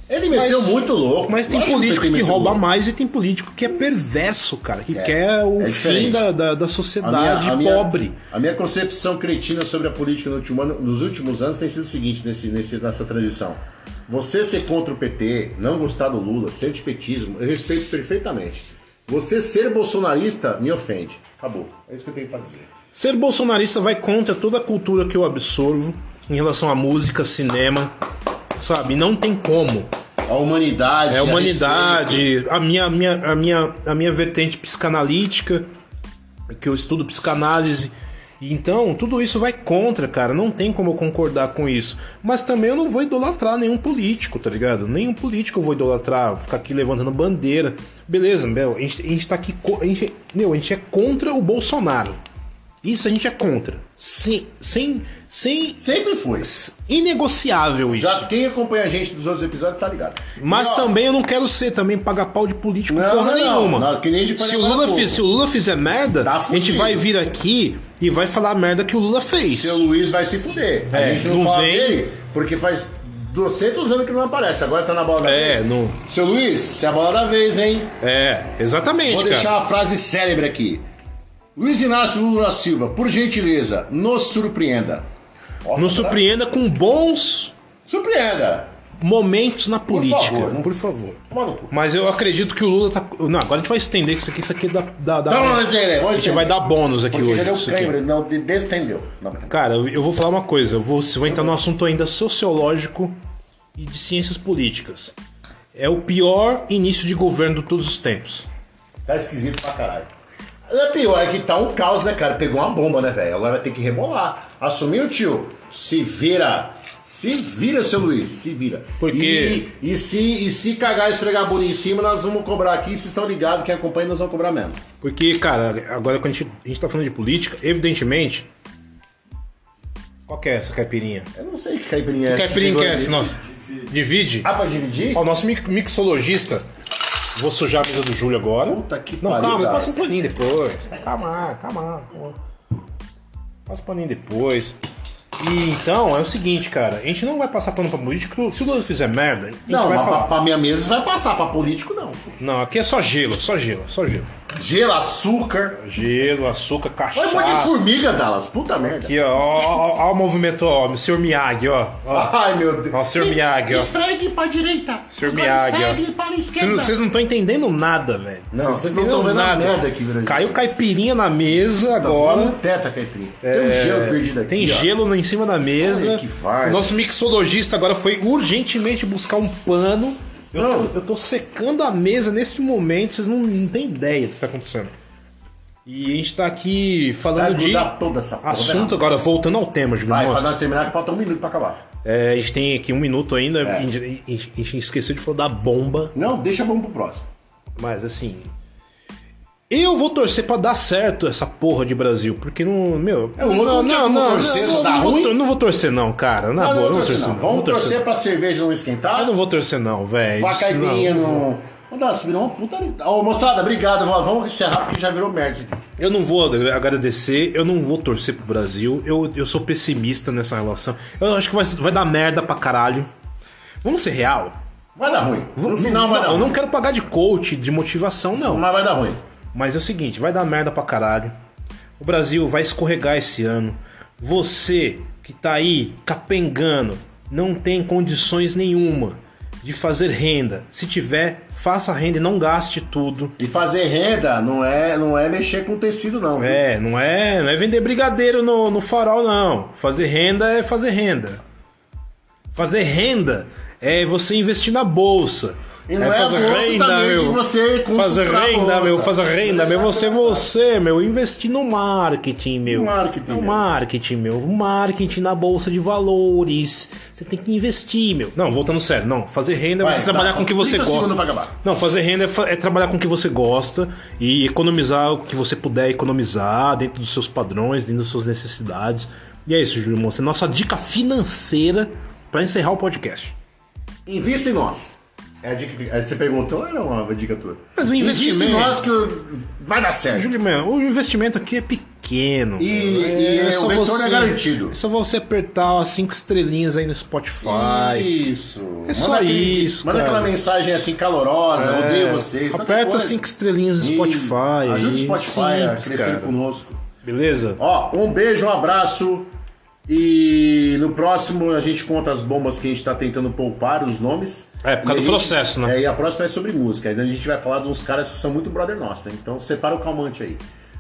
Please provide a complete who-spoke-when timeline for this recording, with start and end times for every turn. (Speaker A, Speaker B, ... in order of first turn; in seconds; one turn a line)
Speaker A: 0.1-2.6
Speaker B: 0.3-8.2
Speaker A: 4.9-6.2
Speaker A: 7.0-22.7
Speaker B: 22.9-27.9
Speaker B: 28.6-29.9
Speaker A: 30.3-32.3
Speaker B: 31.1-35.7
Speaker B: 36.5-52.2
Speaker B: 52.8-55.8
Speaker A: 55.8-56.5
Speaker B: 56.4-58.3
Speaker A: 57.9-60.9
Speaker B: 60.4-69.8
Speaker A: 62.9-65.2
Speaker A: 66.2-67.0
Speaker A: 69.5-77.9
Speaker B: 70.9-72.0
Speaker B: 75.2-76.0
Speaker B: 78.0-79.5
Speaker A: 79.1-80.8
Speaker A: 81.6-85.1
Speaker A: 85.6-86.2
Speaker B: 85.8-87.5
Speaker A: 87.9-88.7
Speaker B: 89.0-98.0
Speaker A: 89.9-91.7
Speaker A: 95.3-96.5
Speaker A: 97.1-99.6
Speaker B: 99.5-103.1
Speaker B: 103.8-105.1
Speaker B: 105.7-108.5
Speaker A: 109.1-110.1
Speaker A: 110.7-124.8
Speaker B: 119.0-119.7
Speaker B: 125.0-128.5
Speaker B: 130.3-131.3
Speaker A: 131.3-133.4
Speaker B: 132.3-133.4
Speaker B: 133.9-134.5
Speaker A: 134.4-135.2
Speaker B: 135.1-136.6
Speaker B: 137.3-142.4
Speaker A: 138.7-140.0
Speaker B: 143.7-144.8
Speaker B: 145.4-150.3
Speaker A: 149.7-152.3
Speaker B: 152.4-154.3
Speaker A: 154.5-155.8
Speaker B: 155.8-157.8
Speaker A: 157.1-159.1
Speaker B: 159.0-162.3
Speaker A: 162.1-166.9
Speaker B: 162.9-163.9
Speaker B: 165.1-166.0
Speaker B: 166.6-172.6
Speaker A: 168.5-170.6
Speaker A: 172.0-174.9
Speaker B: 173.4-184.9
Speaker A: 175.8-176.9
Speaker A: 180.6-180.9
Speaker B: 185.9-190.6
Speaker A: 187.4-189.2
Speaker A: 190.1-191.8
Speaker B: 192.0-196.1
Speaker A: 196.1-197.3
Speaker B: 197.8-198.5
Speaker B: 199.7-208.0
Speaker A: 203.4-205.3
Speaker A: 206.6-209.3
Speaker B: 209.1-211.4
Speaker A: 210.4-215.8
Speaker B: 216.0-223.1
Speaker B: 223.8-224.6
Speaker A: 225.0-226.6
Speaker B: 225.6-228.6
Speaker A: 228.4-229.2
Speaker B: 229.5-231.3
Speaker B: 232.0-243.4
Speaker A: 243.4-246.6
Speaker B: 246.4-251.4
Speaker B: 252.5-257.4
Speaker A: 255.9-260.5
Speaker B: 257.9-283.3
Speaker A: 262.6-263.6
Speaker A: 269.8-271.5
Speaker A: 284.1-290.3
Speaker B: 287.8-288.8
Speaker B: 290.1-298.1
Speaker A: 292.6-294.8
Speaker A: 297.4-303.2
Speaker B: 298.9-300.4
Speaker B: 301.5-306.3
Speaker A: 303.8-306.8
Speaker B: 307.0-307.6
Speaker A: 307.6-309.3
Speaker A: 309.9-320.4
Speaker B: 314.6-315.8